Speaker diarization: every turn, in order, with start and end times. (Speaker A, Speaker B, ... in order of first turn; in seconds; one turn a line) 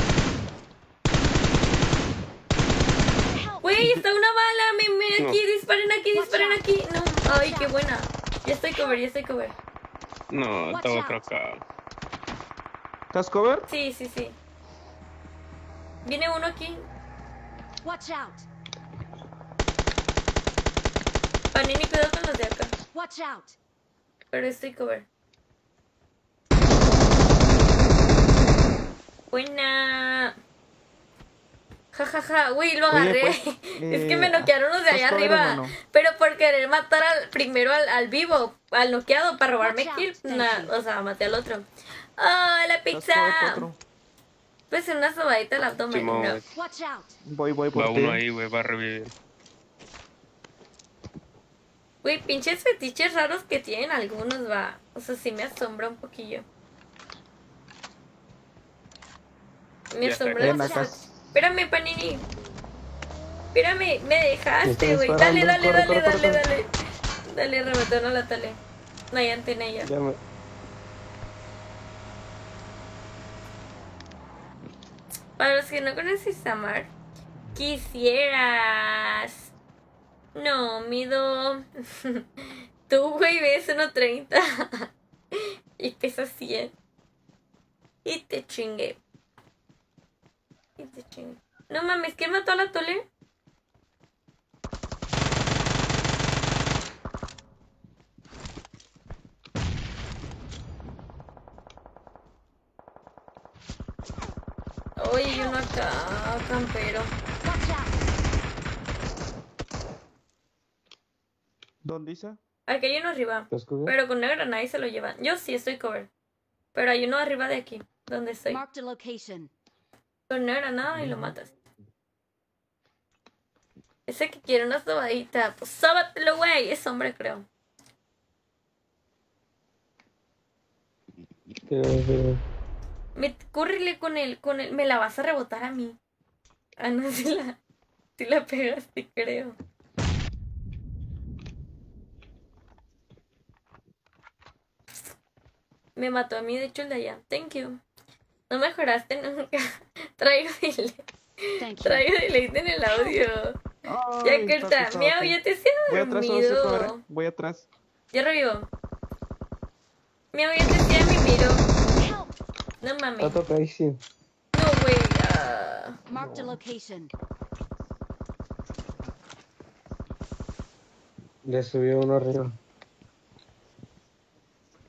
Speaker A: 3.3-4.0
Speaker B: 3.6-9.5
Speaker A: 6.1-6.6
Speaker A: 7.3-7.8
Speaker C: 10.3-11.6
Speaker A: 10.7-11.3
Speaker D: 13.1-13.7
Speaker B: 13.7-14.4
Speaker B: 16.1-16.9
Speaker A: 17.8-18.5
Speaker B: 21.5-22.8
Speaker A: 22.9-23.6
Speaker B: 24.3-25.1
Speaker B: 29.3-30.3
Speaker B: 31.9-41.7
Speaker D: 32.9-35.8
Speaker A: 39.6-40.7
Speaker B: 42.2-43.7
Speaker D: 42.9-43.8
Speaker B: 44.7-46.4
Speaker C: 45.9-46.5
Speaker A: 46.5-47.2
Speaker D: 47.3-48.2
Speaker C: 47.8-49.1
Speaker B: 52.0-56.5
Speaker B: 59.9-62.2
Speaker C: 60.0-60.9
Speaker D: 60.4-61.1
Speaker B: 63.5-66.7
Speaker E: 64.6-66.4
Speaker B: 67.3-68.6
Speaker B: 69.1-69.9
Speaker E: 69.8-70.2
Speaker B: 75.4-76.9
Speaker B: 77.5-79.5
Speaker B: 80.4-86.7
Speaker B: 88.0-89.0
Speaker B: 90.8-93.1
Speaker B: 105.0-107.1
Speaker A: 107.4-108.0
Speaker D: 111.8-112.4
Speaker B: 112.7-116.1
Speaker E: 113.5-113.9
Speaker B: 116.8-118.6
Speaker A: 118.5-119.5
Speaker B: 120.3-121.5
Speaker B: 124.1-127.5
Speaker E: 131.7-132.4
Speaker B: 133.2-136.0
Speaker B: 136.8-137.6
Speaker B: 138.2-139.6
Speaker B: 146.0-147.8
Speaker B: 148.5-151.0
Speaker A: 151.6-152.1
Speaker B: 151.8-153.6
Speaker D: 153.8-157.7
Speaker B: 154.2-157.0
Speaker B: 158.1-158.7
Speaker B: 160.3-161.7
Speaker A: 161.9-162.3
Speaker B: 162.8-163.4
Speaker E: 163.2-164.0
Speaker B: 164.5-166.0
Speaker A: 166.1-167.1
Speaker E: 166.2-166.6
Speaker E: 171.5-172.6